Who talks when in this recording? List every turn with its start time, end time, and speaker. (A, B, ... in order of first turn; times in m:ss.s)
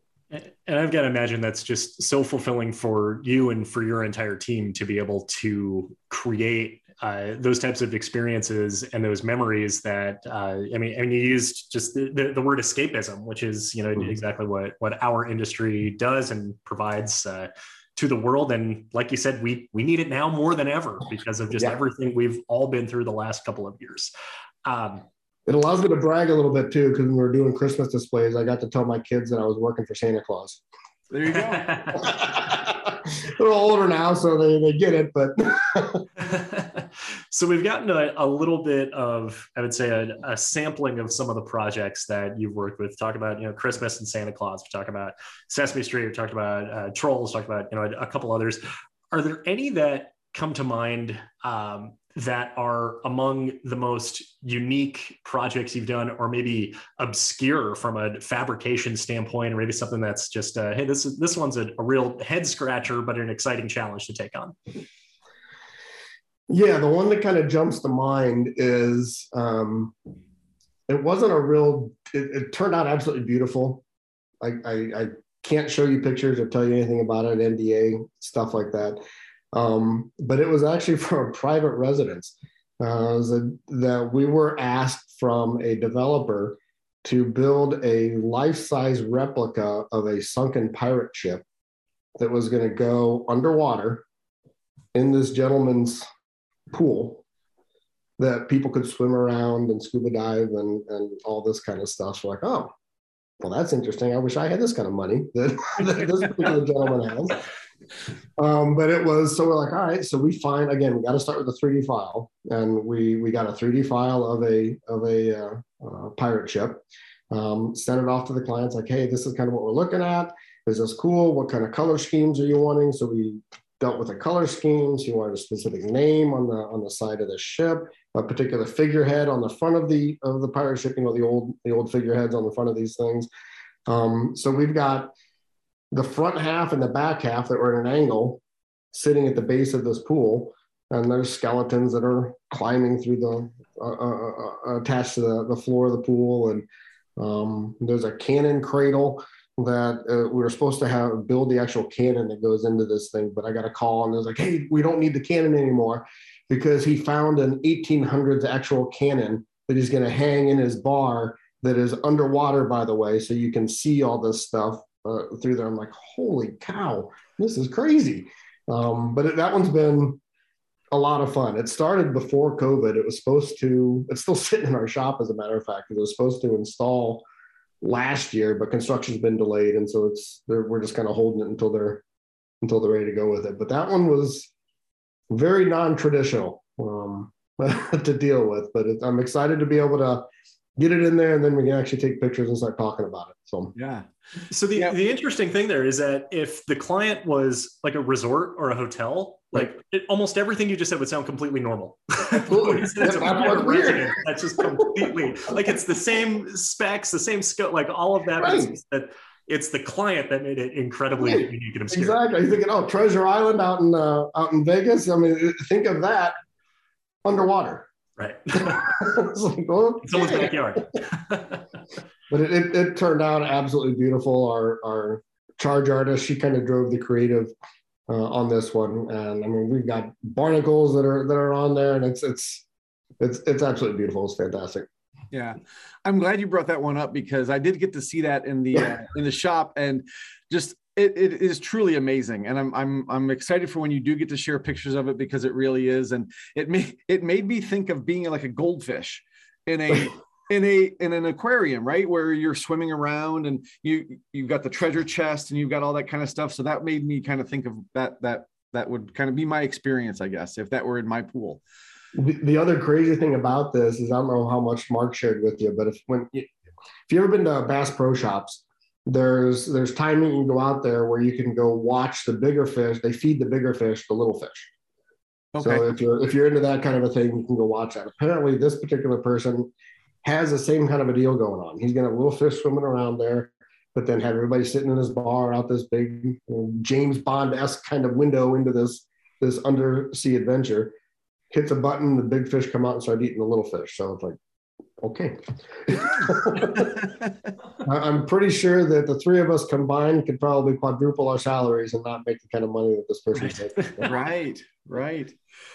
0:00.3-0:24.1 A
0:24.6-0:25.0 A
0:25.5-0:30.6 B
0:31.1-0:31.9 C
0:31.3-0:32.0 A
0:32.0-0:36.1 B
0:36.2-1:04.5 A
1:06.5-1:09.9 B
1:10.9-1:13.8 B
1:14.4-1:19.0 B
1:19.5-1:31.4 B
1:32.2-1:34.0 B
1:34.9-1:36.0 B
1:36.7-1:37.2 B
1:38.2-1:42.7 B
1:43.4-1:47.4 B
1:48.4-2:13.3 B
2:13.9-2:15.1 B
2:15.9-2:18.4 B
2:18.9-2:26.7 B
2:27.2-2:50.2 B
2:50.9-2:57.2 B
2:57.8-3:02.0 B
3:02.6-3:04.5 B
3:05.3-3:10.2 B
3:10.8-3:13.7 B
3:13.7-3:14.1 C
3:14.5-3:32.2 A
3:22.4-3:25.1 B
3:28.4-3:28.7 B
3:31.2-3:36.3 B
3:37.2-3:37.9 B
3:38.2-3:38.9 A
3:38.5-3:40.5 B
3:40.0-3:41.6 A
3:42.3-3:47.5 B
3:48.1-3:52.6 B
3:53.2-3:54.8 B
3:55.3-4:21.6 C
4:22.1-4:26.5 B
4:27.1-4:34.7 B
4:35.5-4:35.8 C
4:35.6-4:39.7 B
4:40.2-4:50.9 B
4:51.5-4:54.4 B
4:55.0-4:57.0 B
4:57.8-5:04.1 B
5:04.0-5:05.4 C